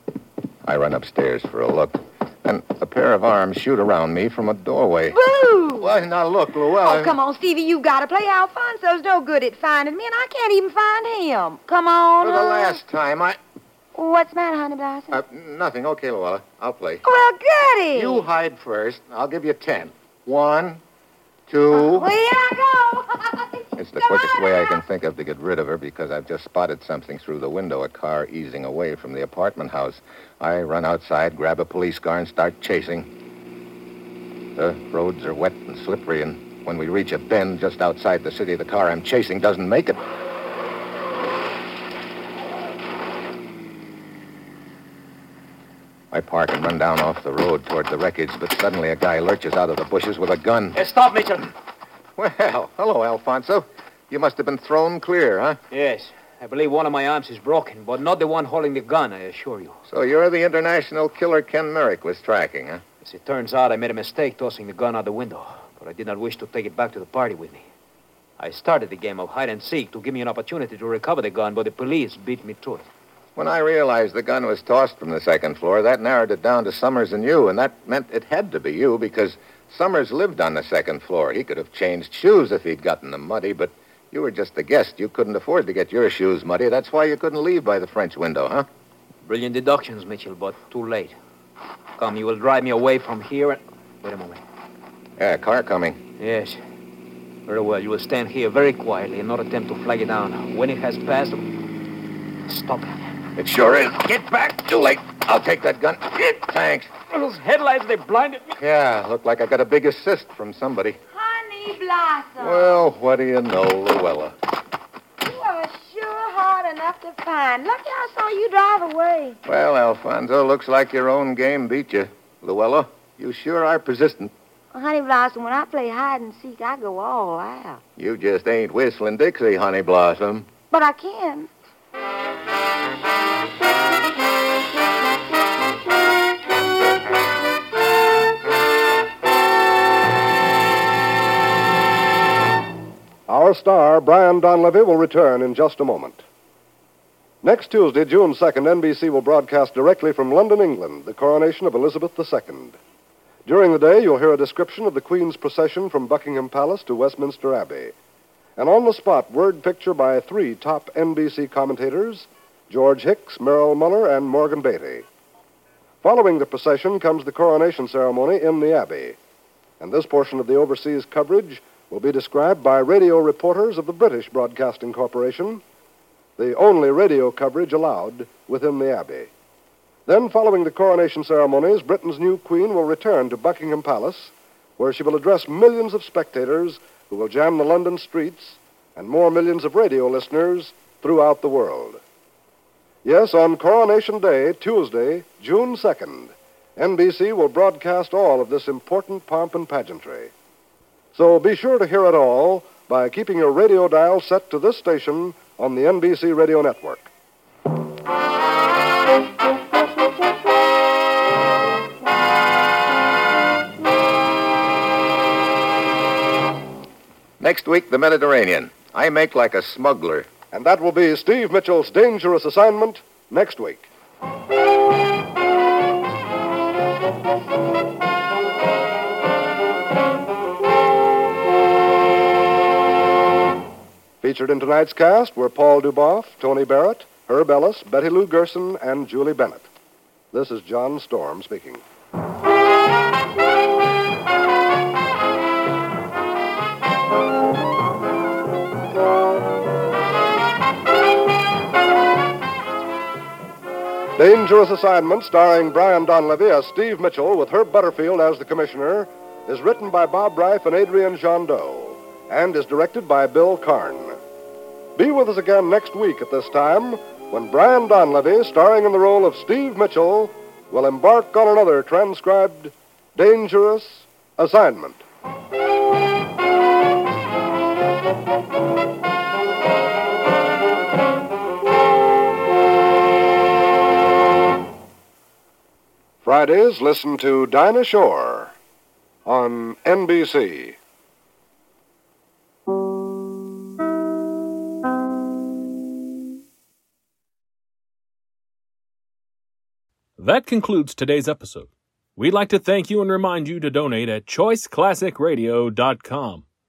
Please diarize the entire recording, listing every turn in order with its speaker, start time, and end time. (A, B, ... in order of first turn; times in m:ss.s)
0:00.6-0:05.2 A
0:05.1-0:06.0 B
0:05.8-0:07.1 A
0:06.7-0:12.8 B
0:12.2-0:13.4 A
0:14.0-0:15.2 B
0:15.1-0:17.0 A
0:17.0-0:18.2 B
0:17.9-0:20.8 A
0:21.5-0:22.1 A
0:21.7-0:24.8 B
0:23.8-0:33.1 A
0:34.6-0:40.0 A
0:46.1-0:50.8 A
0:50.8-0:51.5 C
0:52.2-0:55.6 A
0:55.7-0:59.8 C
0:59.9-1:02.8 A
1:03.0-1:07.7 C
1:08.4-1:12.9 C
1:13.4-1:28.7 A
1:29.2-1:31.2 C
1:32.0-1:34.4 C
1:35.2-1:36.0 A
1:36.2-1:36.6 C
1:37.5-1:41.5 C
1:42.5-1:43.1 C
1:43.4-1:46.9 A
1:47.1-1:48.6 C
1:48.6-1:51.0 A
1:51.1-1:52.8 B
1:52.4-1:54.4 A
1:55.2-1:59.4 B
1:59.5-2:04.3 A
2:04.7-2:07.8 B
2:08.0-2:10.5 A
2:10.7-2:11.5 B
2:23.3-2:26.2 D
2:27.4-2:32.8 D
2:33.4-2:37.9 D
2:38.6-2:45.1 D
2:46.0-2:49.2 D
2:49.8-2:55.6 D
2:56.4-2:59.3 D
3:00.1-3:12.0 D
3:13.0-3:20.3 D
3:21.1-3:27.1 D
3:37.4-3:40.3 A
3:40.5-3:43.9 D
3:54.2-3:59.7 D
4:00.3-4:01.8 D
4:14.2-4:24.2 D
4:25.0-4:35.0 D
4:46.2-4:48.6 D
4:49.3-4:50.8 D
5:00.2-5:06.4 E